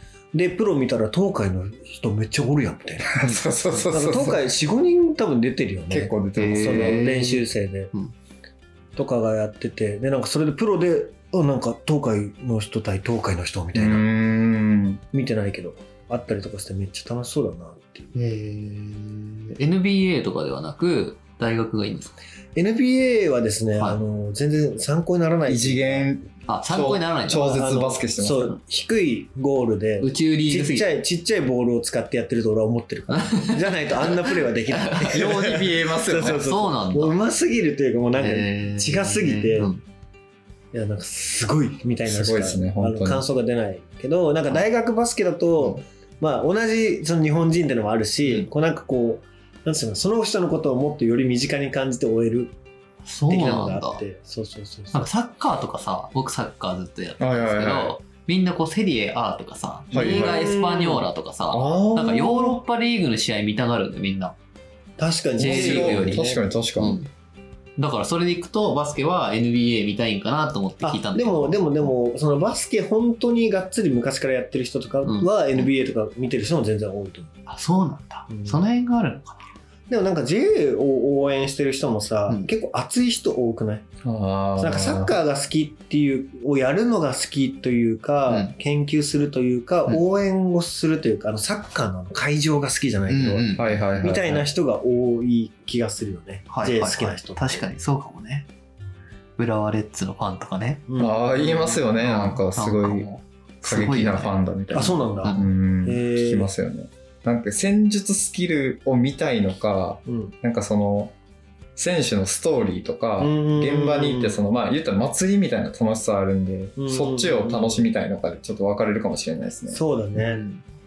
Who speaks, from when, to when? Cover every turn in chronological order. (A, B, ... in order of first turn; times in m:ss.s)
0:00.3-0:07.9 A
0:03.1-0:04.5 B
0:05.9-0:07.0 B
0:06.4-0:08.1 C
0:09.0-0:14.1 A
0:13.7-0:15.0 B
0:15.1-0:18.1 A
0:18.1-0:22.1 C
0:22.5-0:26.1 A
0:25.4-0:28.5 B
0:26.5-0:27.4 C
0:27.4-0:39.7 A
0:30.0-0:30.9 C
0:33.1-0:35.2 C
0:35.1-0:36.5 B
0:36.4-0:37.2 C
0:38.2-0:39.8 C
0:40.7-0:52.5 A
0:42.0-0:43.2 B
0:53.0-0:54.0 C
0:53.3-0:55.1 A
0:54.9-1:04.3 C
0:57.2-0:57.9 B
0:59.9-1:00.4 B
0:59.9-1:01.1 A
1:01.5-1:02.6 B
1:05.0-1:06.4 A
1:05.4-1:07.1 C
1:05.4-1:07.0 B
1:07.8-1:11.9 C
1:10.8-1:17.3 A
1:15.0-1:15.7 C
1:17.5-1:19.4 C
1:18.3-1:18.6 A
1:19.9-1:23.8 A
1:24.0-1:25.1 B
1:24.6-1:37.7 A
1:28.3-1:28.5 C
1:33.1-1:34.2 C
1:33.6-1:34.4 B
1:36.5-1:38.5 C
1:39.4-1:40.8 C
1:40.9-1:41.8 A
1:41.0-1:43.1 B
1:42.0-1:44.3 C
1:43.6-1:51.1 B
1:44.7-1:46.5 A
1:45.2-1:45.5 C
1:50.0-1:50.3 A
1:51.8-1:59.8 B
1:53.2-1:54.4 A
1:56.8-1:57.9 A
1:59.7-2:00.4 A
2:00.2-2:00.6 C